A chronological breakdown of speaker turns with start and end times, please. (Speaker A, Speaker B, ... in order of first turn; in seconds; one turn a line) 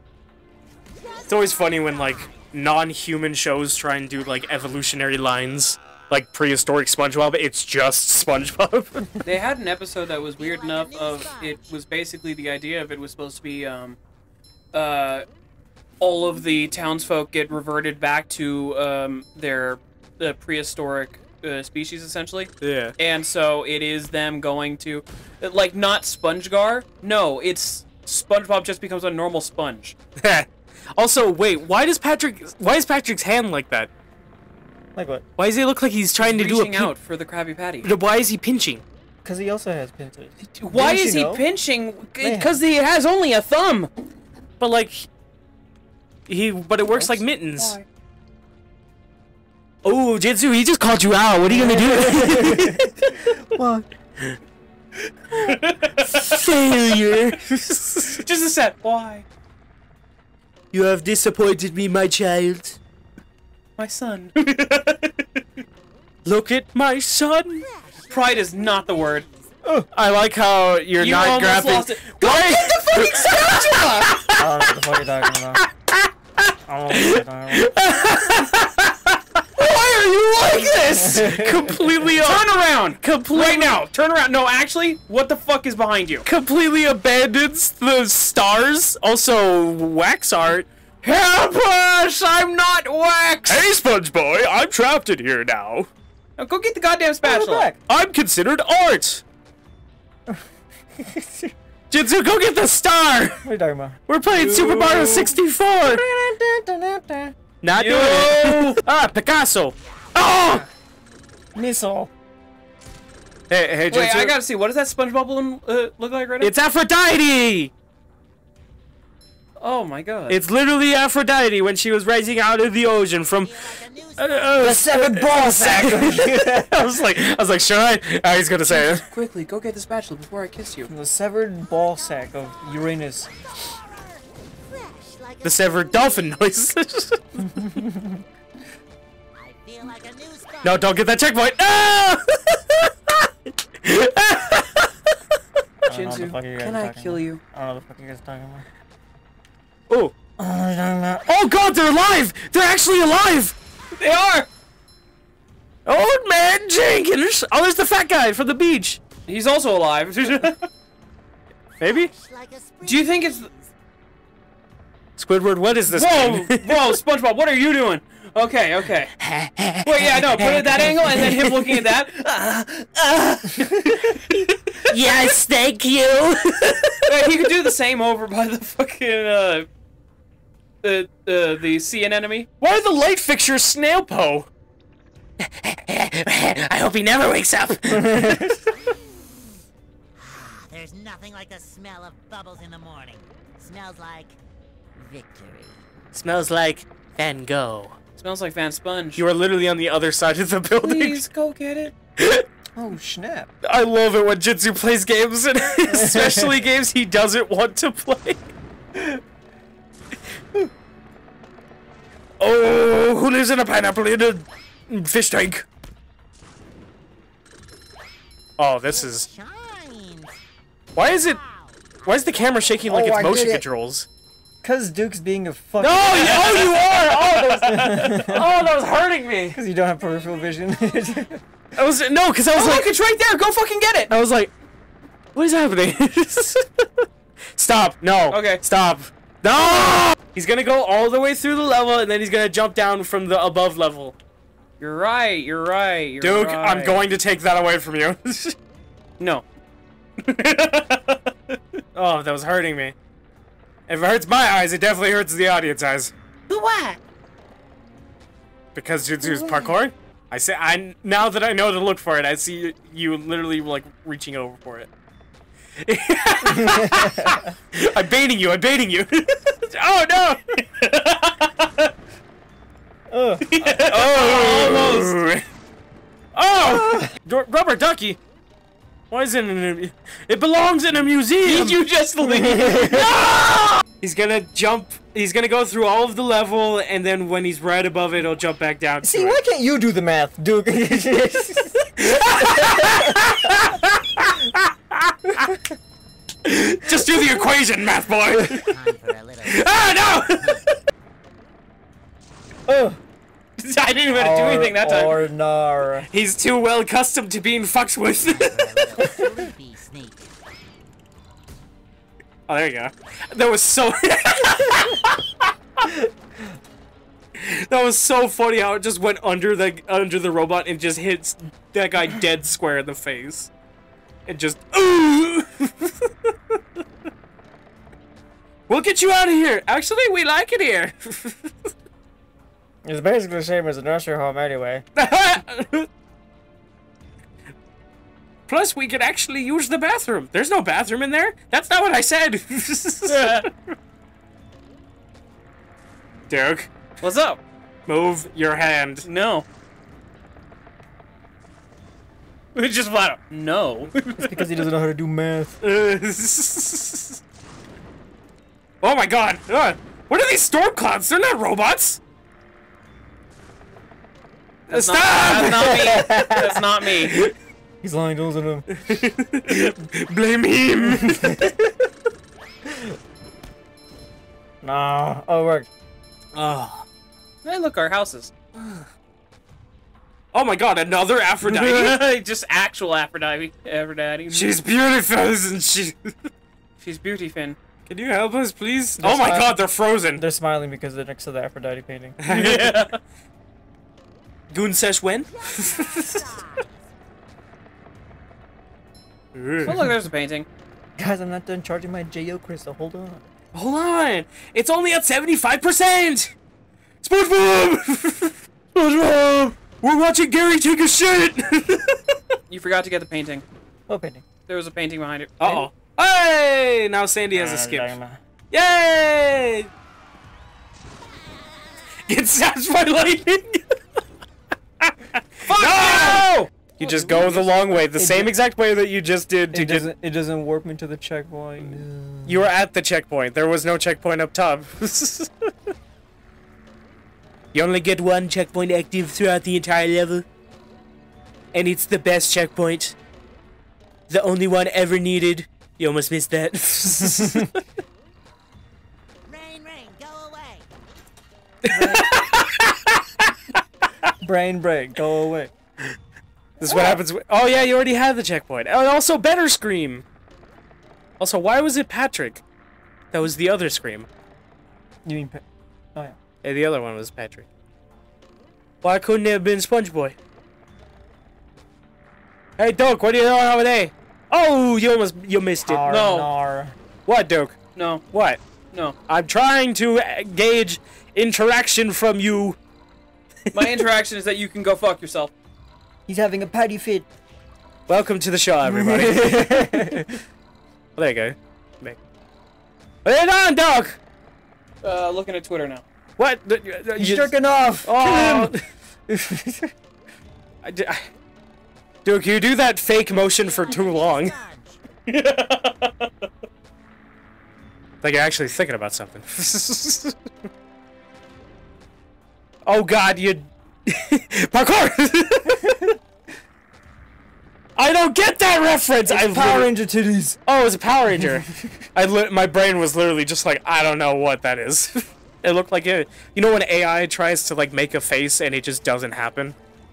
Speaker A: 0.9-2.4
Speaker B: 1.3-9.2
Speaker C: 9.2-14.0
Speaker A: 10.4-11.8
Speaker C: 14.7-15.3
Speaker C: 16.0-29.9
Speaker B: 22.6-22.9
Speaker B: 30.2-33.9
Speaker D: 34.9-35.2
Speaker B: 35.4-36.9
Speaker C: 36.2-37.9
Speaker B: 37.8-38.8
Speaker D: 39.2-41.4
Speaker C: 40.4-43.9
Speaker D: 42.2-42.6
Speaker B: 44.6-45.1
Speaker B: 46.3-47.8
Speaker C: 47.5-47.9
Speaker B: 49.8-52.9
Speaker D: 51.5-53.9
Speaker C: 55.3-56.3
Speaker B: 56.1-58.2
Speaker C: 58.0-59.3
Speaker B: 60.7-62.8
Speaker C: 63.8-65.1
Speaker B: 66.2-67.7
Speaker A: 67.5-69.5
Speaker C: 68.1-69.3
Speaker B: 69.9-74.7
Speaker C: 71.0-74.2
Speaker D: 74.3-75.6
Speaker B: 75.5-83.9
Speaker D: 76.7-77.7
Speaker C: 79.6-81.0
Speaker D: 80.9-82.1
Speaker C: 82.2-86.3
Speaker B: 86.2-90.7
Speaker C: 91.0-93.6
Speaker B: 93.5-95.9
Speaker C: 96.4-97.7
Speaker D: 97.2-97.8
Speaker B: 97.9-99.2
Speaker D: 101.0-101.5
Speaker B: 101.9-103.4
Speaker D: 103.4-104.0
Speaker B: 104.1-106.0
Speaker C: 104.3-105.3
Speaker D: 105.8-107.3
Speaker B: 107.6-110.7
Speaker C: 107.7-108.8
Speaker D: 111.5-112.1
Speaker B: 113.5-114.4
Speaker C: 113.9-116.5
Speaker B: 116.4-117.7
Speaker C: 119.6-120.4
Speaker B: 120.3-129.1
Speaker A: 123.4-124.7
Speaker D: 124.6-126.9
Speaker C: 128.7-130.9
Speaker D: 130.9-133.3
Speaker A: 131.6-136.5
Speaker B: 135.4-137.6
Speaker D: 137.4-138.2
Speaker A: 139.3-141.0
Speaker B: 140.6-143.3
Speaker B: 143.8-145.1
Speaker D: 145.8-148.7
Speaker C: 145.9-147.4
Speaker B: 149.9-150.1
Speaker D: 150.4-151.3
Speaker B: 151.3-153.6
Speaker C: 154.0-154.5
Speaker B: 155.9-159.0
Speaker C: 159.3-160.7
Speaker B: 161.8-162.1
Speaker A: 161.8-163.7
Speaker C: 162.8-163.5
Speaker B: 165.2-166.9
Speaker C: 165.9-169.1
Speaker B: 169.2-171.9
Speaker C: 169.8-173.5
Speaker B: 173.5-177.3
Speaker D: 173.6-174.0
Speaker C: 177.1-179.7
Speaker C: 180.8-182.5
Speaker B: 182.6-184.5
Speaker B: 185.4-188.4
Speaker D: 187.9-188.6
Speaker A: 188.8-189.4
Speaker A: 190.2-194.4
Speaker A: 194.9-195.9
Speaker B: 196.1-198.0
Speaker C: 198.2-199.2
Speaker B: 199.2-201.3
Speaker C: 200.8-201.9
Speaker B: 202.2-202.5
Speaker D: 202.8-203.5
Speaker B: 203.6-208.4
Speaker D: 205.9-206.5
Speaker B: 212.4-215.7
Speaker B: 218.6-219.3
Speaker A: 218.9-220.4
Speaker B: 220.9-221.4
Speaker A: 221.0-223.2
Speaker B: 222.1-224.1
Speaker D: 222.9-223.6
Speaker D: 224.6-228.7
Speaker B: 225.8-229.6
Speaker C: 226.1-226.8
Speaker D: 229.5-231.4
Speaker A: 230.0-230.9
Speaker B: 231.8-232.9
Speaker C: 232.5-234.1
Speaker B: 234.1-234.5
Speaker B: 235.3-236.8
Speaker B: 237.6-244.1
Speaker C: 238.3-238.6
Speaker C: 244.8-247.0
Speaker B: 246.2-248.6
Speaker C: 249.2-249.4
Speaker C: 250.2-251.6
Speaker B: 251.9-252.9
Speaker B: 253.9-256.1
Speaker C: 256.5-257.0
Speaker B: 258.8-264.9
Speaker B: 265.8-270.9
Speaker D: 266.5-267.4
Speaker C: 271.1-271.9
Speaker D: 273.1-273.4
Speaker C: 273.4-275.1
Speaker B: 273.6-275.4
Speaker B: 276.3-278.2
Speaker D: 276.6-277.1
Speaker B: 279.1-281.8
Speaker C: 281.4-283.8
Speaker D: 282.2-283.1
Speaker B: 284.0-289.4
Speaker D: 289.0-293.6
Speaker B: 292.0-295.5
Speaker D: 295.3-295.6
Speaker B: 296.4-298.8
Speaker A: 298.4-300.7
Speaker B: 299.4-300.7
Speaker D: 302.7-303.0
Speaker C: 303.6-305.2
Speaker D: 304.1-306.1
Speaker B: 306.1-309.0
Speaker A: 308.2-310.3
Speaker B: 312.5-315.9
Speaker B: 317.4-323.5
Speaker B: 324.3-326.3
Speaker B: 328.7-331.7
Speaker D: 332.8-334.8
Speaker B: 334.9-335.9
Speaker B: 338.5-343.5
Speaker C: 343.1-343.5
Speaker B: 346.3-346.7
Speaker C: 347.0-347.4
Speaker B: 347.9-349.1
Speaker C: 349.0-349.4
Speaker C: 352.6-354.5
Speaker D: 354.2-355.6
Speaker B: 355.6-357.2
Speaker B: 358.8-362.0
Speaker B: 364.7-366.0
Speaker C: 364.7-367.2
Speaker D: 365.4-366.6
Speaker D: 367.8-368.7
Speaker B: 368.7-371.5
Speaker D: 370.9-371.6
Speaker D: 372.7-372.9
Speaker D: 374.6-375.7
Speaker B: 376.3-376.9
Speaker C: 377.4-378.3
Speaker B: 380.3-382.2
Speaker C: 381.4-384.6
Speaker B: 384.3-386.1
Speaker C: 386.8-387.6
Speaker B: 387.9-390.2
Speaker D: 389.0-389.6
Speaker D: 390.1-392.2
Speaker B: 392.2-392.9
Speaker C: 392.3-393.0
Speaker B: 394.5-396.5
Speaker A: 395.3-396.9
Speaker B: 399.4-399.9
Speaker C: 399.6-400.5
Speaker D: 401.0-403.2
Speaker B: 403.5-406.3
Speaker B: 407.0-412.1
Speaker C: 412.5-413.4
Speaker D: 413.9-414.2
Speaker C: 414.5-415.6
Speaker B: 415.4-417.9
Speaker D: 417.3-418.2
Speaker B: 418.5-419.7
Speaker B: 422.1-423.6
Speaker B: 424.8-429.9
Speaker C: 425.4-427.8
Speaker D: 427.8-428.4
Speaker D: 429.5-432.5
Speaker B: 432.2-435.5
Speaker B: 437.5-440.2
Speaker B: 441.5-442.9
Speaker B: 444.1-447.6
Speaker A: 449.3-450.7
Speaker B: 451.6-453.3
Speaker D: 451.7-452.1
Speaker D: 454.2-455.5
Speaker B: 456.6-460.0
Speaker D: 456.6-457.0
Speaker B: 461.2-462.4
Speaker B: 463.1-464.1
Speaker D: 465.1-465.4
Speaker B: 466.4-467.5
Speaker B: 468.8-470.1
Speaker B: 472.6-475.9
Speaker D: 475.6-476.8
Speaker C: 475.9-476.3
Speaker B: 477.1-477.6
Speaker C: 477.8-478.0
Speaker B: 478.1-478.4
Speaker B: 479.1-482.6
Speaker B: 483.5-483.8
Speaker C: 483.5-485.3
Speaker D: 486.1-487.1
Speaker B: 487.9-490.0
Speaker D: 488.6-490.1
Speaker B: 491.0-492.0
Speaker B: 493.1-494.0
Speaker C: 494.8-495.8
Speaker B: 496.2-498.6
Speaker D: 496.9-498.6
Speaker D: 499.1-499.7
Speaker B: 500.6-501.1
Speaker B: 502.1-504.4
Speaker A: 503.1-504.8
Speaker B: 508.0-510.1
Speaker B: 512.6-515.8
Speaker D: 515.6-515.9
Speaker B: 517.8-519.7
Speaker D: 519.1-520.4
Speaker B: 520.5-529.5
Speaker D: 521.1-521.8